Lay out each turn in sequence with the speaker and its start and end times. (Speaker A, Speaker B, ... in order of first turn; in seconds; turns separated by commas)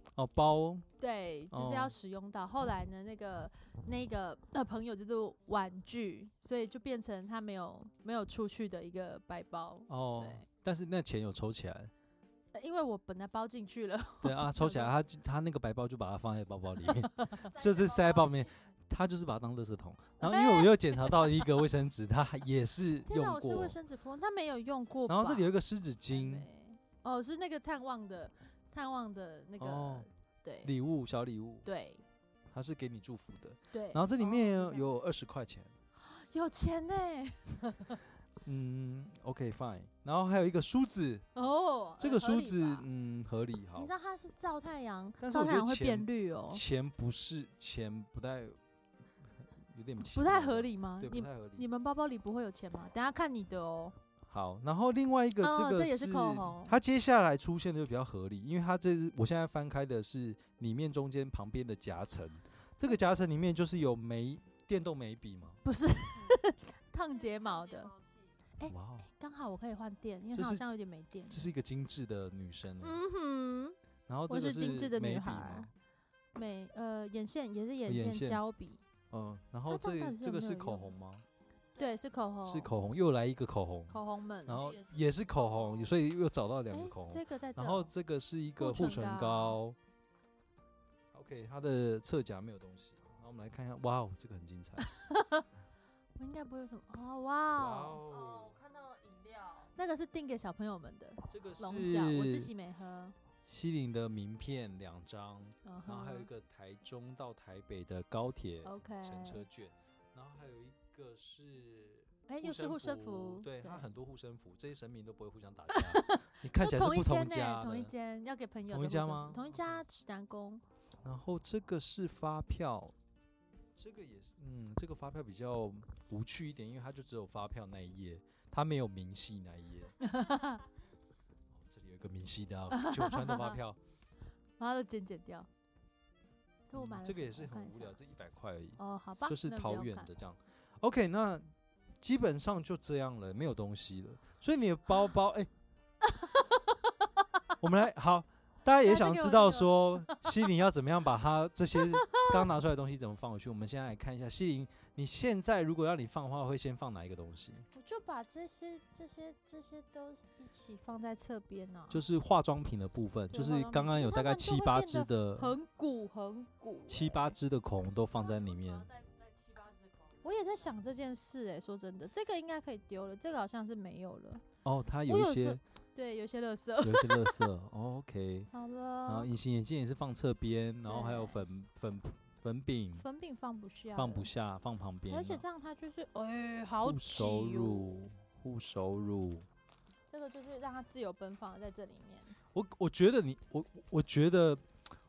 Speaker A: 0.1-0.8, Speaker B: 1.0-10.4, Speaker A: 1.5-1.9, Speaker A: 9.9-11.9, Speaker B: 12.5-14.9, Speaker A: 14.2-23.8, Speaker C: 17.4-18.7, Speaker B: 20.2-21.4, Speaker B: 23.1-25.5, Speaker A: 25.1-26.5, Speaker B: 26.1-30.7, Speaker A: 29.6-30.1, Speaker A: 30.6-31.6, Speaker B: 31.6-32.0, Speaker A: 32.5-35.7, Speaker B: 33.7-34.8, Speaker B: 36.0-38.0, Speaker A: 38.4-41.2, Speaker B: 41.3-42.9, Speaker A: 42.0-43.9, Speaker B: 43.8-46.6, Speaker A: 45.2-48.6, Speaker A: 49.4-51.7, Speaker B: 50.0-54.0, Speaker A: 54.2-65.6, Speaker B: 55.4-56.8, Speaker B: 65.6-67.9, Speaker C: 67.1-68.4, Speaker B: 68.6-71.5, Speaker A: 68.7-69.1, Speaker A: 70.3-70.6, Speaker A: 71.3-73.0, Speaker B: 72.8-73.8, Speaker A: 74.1-75.7, Speaker B: 74.3-75.7, Speaker B: 76.3-78.8, Speaker A: 77.8-78.4, Speaker A: 79.1-81.2, Speaker B: 79.7-80.9, Speaker C: 81.7-82.0, Speaker B: 81.8-82.7, Speaker A: 82.4-89.8, Speaker B: 83.9-84.6, Speaker C: 84.5-85.9, Speaker B: 86.7-87.9, Speaker B: 88.6-89.6, Speaker A: 91.1-94.8, Speaker B: 94.8-95.5, Speaker B: 96.2-98.0, Speaker A: 97.6-98.6, Speaker C: 98.0-99.7, Speaker B: 99.8-103.1, Speaker A: 101.3-102.5, Speaker A: 103.4-117.9, Speaker B: 105.6-106.3, Speaker B: 108.6-109.4, Speaker B: 112.3-113.9, Speaker B: 115.7-120.6, Speaker A: 118.7-119.8, Speaker A: 121.0-122.9, Speaker A: 123.7-129.9, Speaker B: 130.0-130.6, Speaker A: 131.5-133.8, Speaker B: 132.7-133.6, Speaker B: 134.6-135.5, Speaker B: 136.7-137.9, Speaker A: 136.7-145.5, Speaker B: 138.8-140.1, Speaker B: 146.0-147.2, Speaker A: 147.6-157.6, Speaker B: 148.8-150.3, Speaker B: 151.8-152.4, Speaker B: 157.7-162.0, Speaker A: 161.9-165.6, Speaker B: 163.3-167.3, Speaker A: 166.9-168.9, Speaker C: 168.1-170.7, Speaker B: 170.2-174.4, Speaker A: 174.6-175.6, Speaker B: 175.1-177.5, Speaker A: 176.8-178.5, Speaker B: 178.5-179.3, Speaker A: 179.1-183.0, Speaker B: 180.8-181.4, Speaker B: 182.9-184.3, Speaker A: 183.9-185.4, Speaker B: 185.1-187.9, Speaker A: 186.8-189.5, Speaker B: 190.1-192.3, Speaker A: 192.5-194.6